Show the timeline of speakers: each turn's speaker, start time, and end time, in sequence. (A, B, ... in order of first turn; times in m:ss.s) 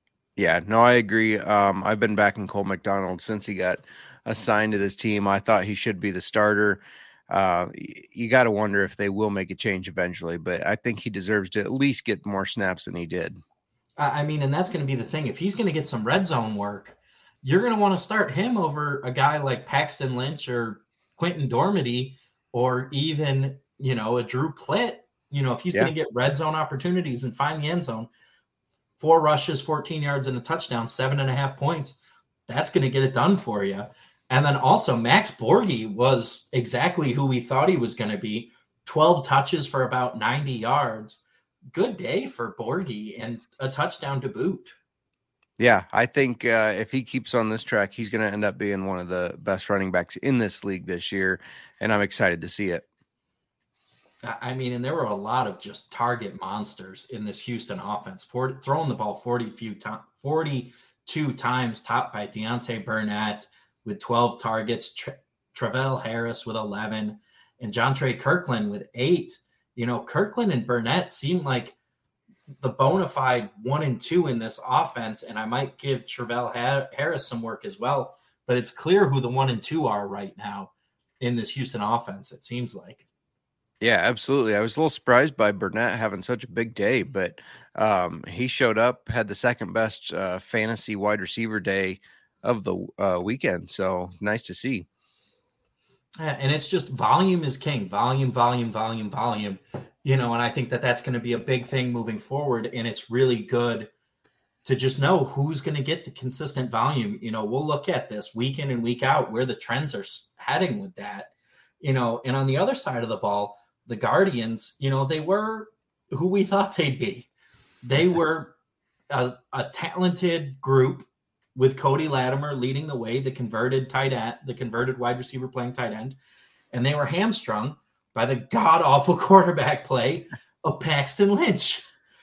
0:00.4-0:13.4 A
0:14.0-0:28.1 B
0:29.0-0:41.2 B
0:41.8-0:44.8 B
0:45.6-0:52.8 A
0:54.2-1:11.8 B
1:12.6-1:23.0 B
1:23.8-1:34.9 A
1:36.2-1:43.9 B
1:44.6-1:57.3 B
1:57.8-1:58.5 B
1:59.1-2:06.2 B
2:06.7-2:11.8 B